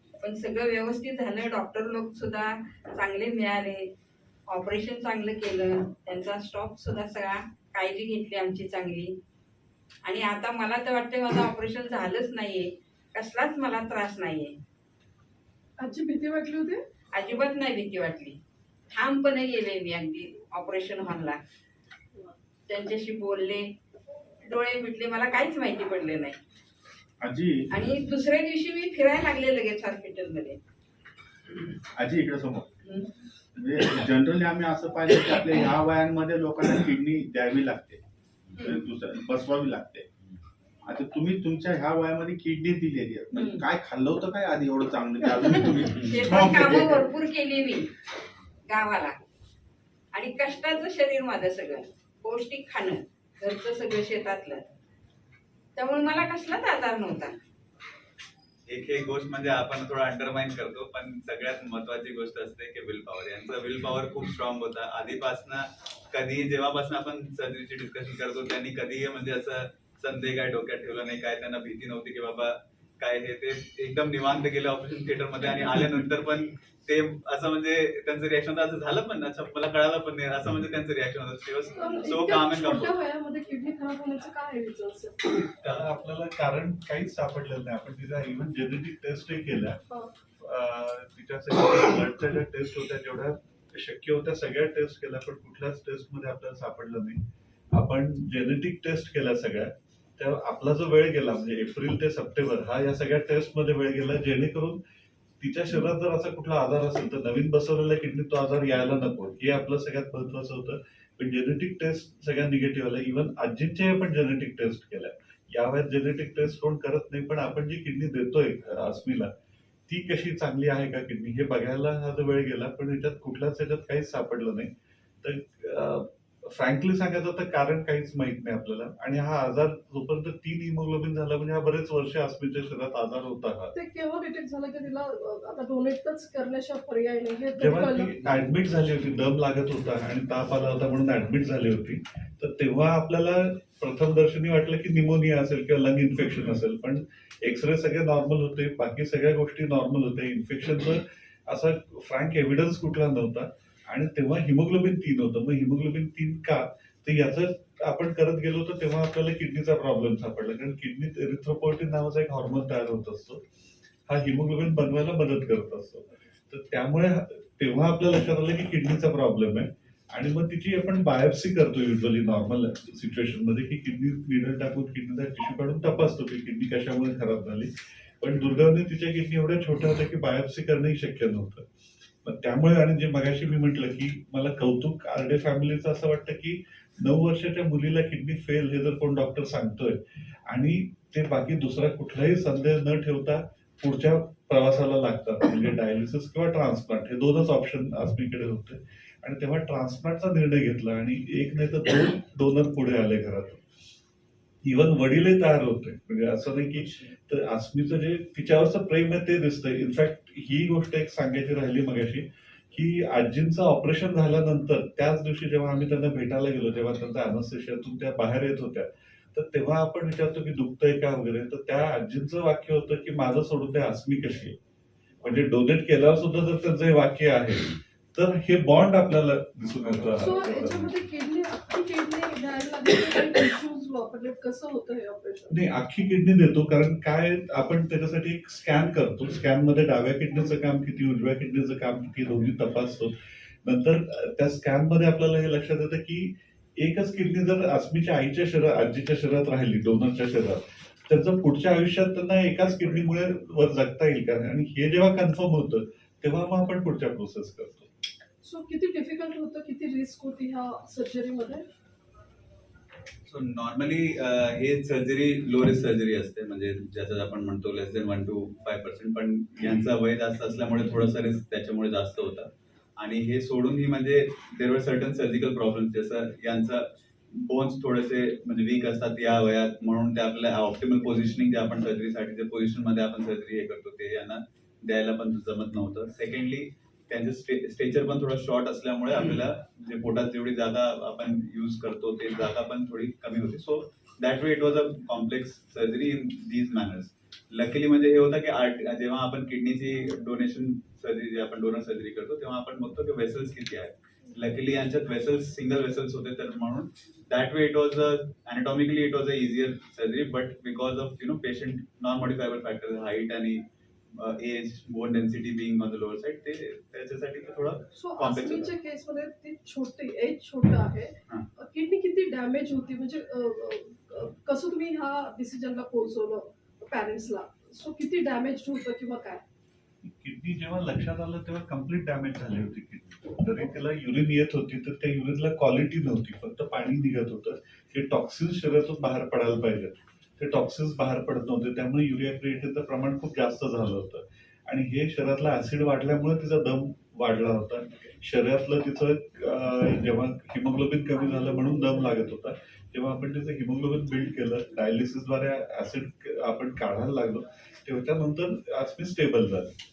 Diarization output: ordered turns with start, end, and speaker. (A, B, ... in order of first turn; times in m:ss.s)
0:00.2-0:03.9 A
0:04.5-0:09.1 A
0:10.0-0:14.5 A
0:15.8-0:16.8 B
0:17.1-0:18.4 A
0:18.9-0:21.4 A
0:22.7-0:23.7 A
0:24.4-0:26.4 A
0:27.2-0:27.6 C
0:27.7-0:30.6 A
0:32.0-0:32.7 C
0:33.6-0:38.0 C
0:38.6-0:40.0 C
0:40.8-0:47.0 C
0:43.3-0:43.6 A
0:45.4-0:47.9 A
0:48.7-0:49.1 A
0:50.1-0:54.6 A
0:55.8-0:57.3 A
0:58.7-1:22.9 D
1:21.8-1:25.2 B
1:25.6-1:29.8 E
1:30.4-1:37.2 E
1:37.7-1:44.8 E
1:45.4-1:59.3 E
1:59.9-2:04.7 E
2:05.2-2:13.7 E
2:13.7-2:18.1 B
2:17.6-2:43.4 E
2:44.1-3:01.6 E
3:02.2-3:23.6 E
3:24.6-3:44.6 E
3:45.2-3:50.9 E
3:50.2-3:55.5 B
3:55.5-4:17.9 E
4:18.4-4:21.6 B
4:23.3-5:13.6 D
5:14.1-5:18.7 D
5:17.9-5:29.4 B
5:30.0-5:59.7 E